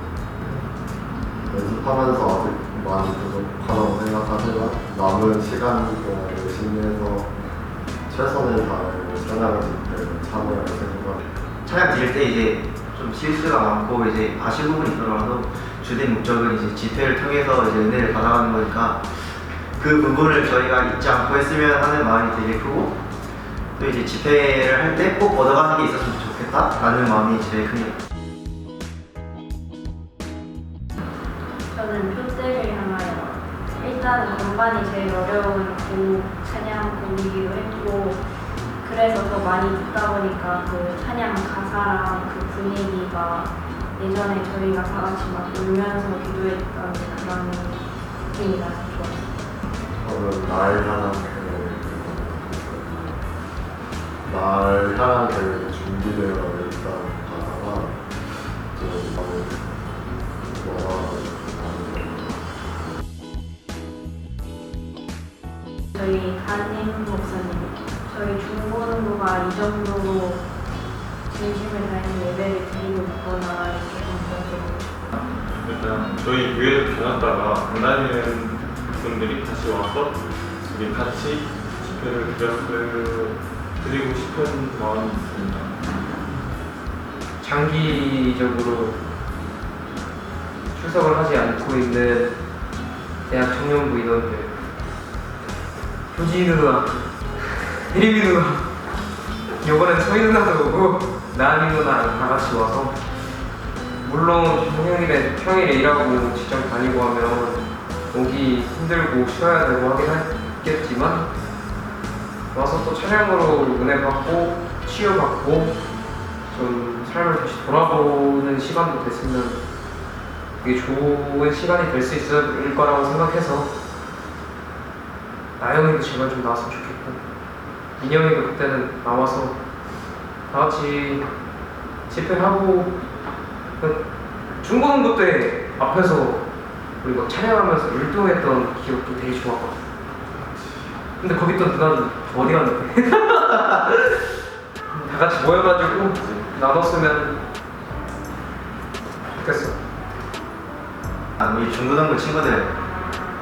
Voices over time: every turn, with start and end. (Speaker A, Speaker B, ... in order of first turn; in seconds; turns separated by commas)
Speaker A: 1.4-7.4, Speaker A: 8.1-11.2, Speaker B: 11.6-23.0, Speaker B: 23.8-27.9, Speaker C: 31.7-38.2, Speaker C: 38.8-49.2, Speaker A: 50.0-53.2, Speaker A: 54.2-58.1, Speaker A: 58.7-59.8, Speaker A: 60.3-62.4, Speaker C: 65.9-70.4, Speaker C: 71.2-74.9, Speaker D: 75.1-85.8, Speaker E: 87.4-89.0, Speaker E: 90.7-92.3, Speaker E: 93.3-94.5, Speaker E: 96.1-98.7, Speaker E: 99.6-103.0, Speaker E: 104.0-111.3, Speaker E: 112.5-115.8, Speaker E: 116.5-119.6, Speaker E: 120.6-123.7, Speaker E: 125.6-127.2, Speaker E: 128.0-129.6, Speaker E: 130.5-131.2, Speaker E: 132.1-132.9, Speaker E: 133.8-134.0, Speaker E: 134.6-136.4, Speaker E: 137.0-139.8, Speaker D: 140.3-141.0, Speaker E: 141.2-144.2, Speaker E: 145.0-147.4, Speaker E: 149.3-149.8, Speaker B: 151.4-152.8